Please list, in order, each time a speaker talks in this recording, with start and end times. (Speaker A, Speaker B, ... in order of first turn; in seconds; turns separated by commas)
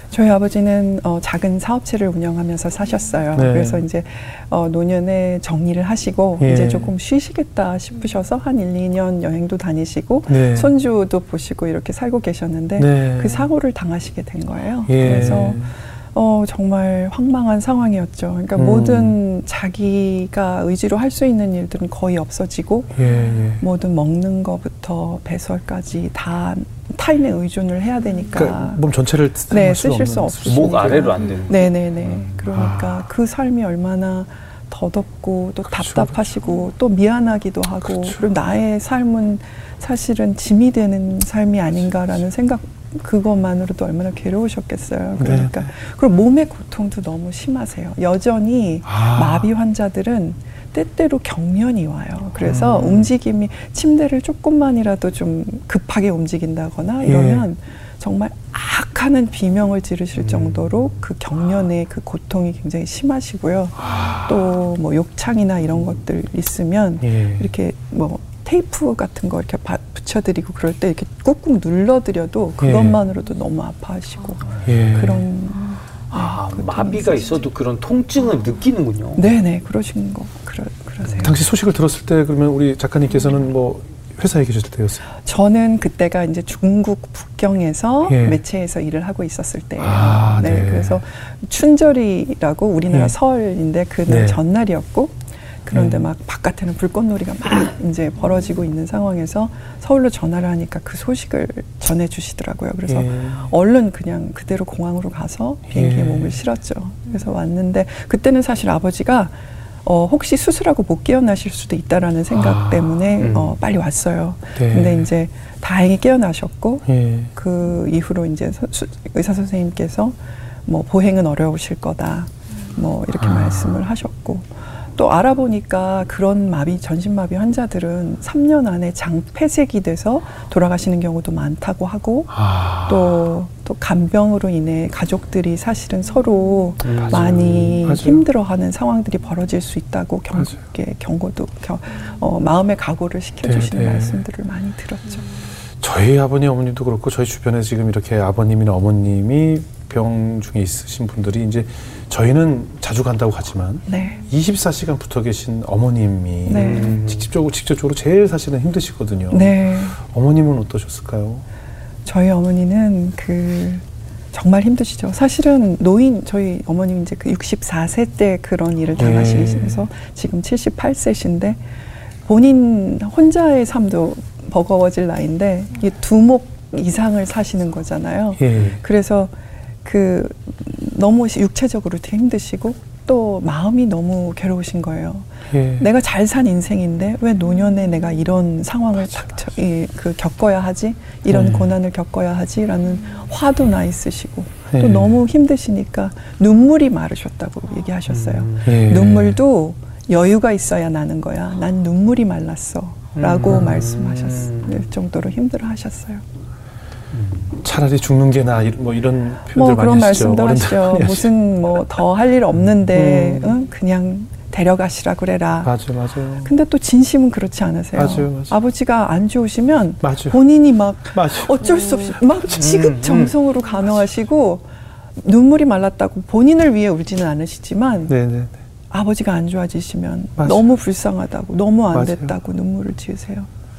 Speaker A: 0.1-23.0, Speaker B: 3.3-3.8, Speaker B: 6.4-6.9, Speaker B: 10.3-10.7, Speaker B: 12.8-13.5, Speaker B: 14.9-15.7, Speaker B: 18.6-19.2, Speaker B: 22.9-23.6, Speaker A: 23.6-28.8, Speaker B: 28.3-31.3, Speaker A: 29.5-77.3, Speaker C: 30.4-31.7, Speaker B: 32.1-33.0, Speaker B: 35.6-36.5, Speaker B: 37.9-38.2, Speaker B: 45.2-45.6, Speaker B: 48.9-49.5, Speaker B: 52.4-53.1, Speaker B: 57.0-57.5, Speaker B: 60.2-60.5, Speaker B: 63.8-64.5, Speaker B: 67.0-67.5, Speaker B: 72.6-73.0, Speaker B: 74.6-75.3, Speaker C: 76.1-79.3, Speaker A: 79.2-81.4, Speaker B: 81.2-85.0, Speaker A: 85.2-145.3, Speaker B: 88.1-88.4, Speaker B: 89.8-91.0, Speaker B: 94.1-94.4, Speaker B: 95.7-96.1, Speaker B: 102.9-103.5, Speaker B: 105.7-106.4, Speaker B: 112.3-113.3, Speaker C: 113.2-113.5, Speaker B: 114.6-115.1, Speaker B: 116.9-117.3, Speaker B: 123.2-123.8, Speaker B: 132.3-133.2, Speaker C: 136.8-137.6, Speaker B: 136.8-138.2, Speaker B: 143.4-144.2, Speaker B: 145.8-161.4, Speaker A: 153.9-154.2, Speaker A: 156.5-157.0, Speaker C: 156.5-157.3, Speaker A: 159.3-160.0, Speaker A: 162.1-171.6, Speaker B: 169.0-169.9, Speaker A: 172.3-179.3, Speaker B: 178.4-178.8, Speaker A: 179.8-206.2, Speaker B: 185.5-185.9, Speaker B: 191.3-191.7, Speaker B: 194.7-195.2, Speaker C: 198.1-198.8, Speaker B: 198.6-199.4, Speaker C: 203.2-204.8, Speaker C: 207.1-207.5, Speaker B: 207.5-211.8, Speaker A: 209.5-215.7, Speaker B: 212.9-213.6, Speaker B: 215.6-216.5, Speaker A: 216.4-228.1, Speaker B: 217.9-218.6, Speaker B: 220.0-220.4, Speaker B: 221.1-222.6, Speaker C: 222.6-223.3, Speaker B: 228.1-228.6, Speaker A: 228.9-233.5, Speaker B: 230.4-230.7, Speaker B: 231.9-232.3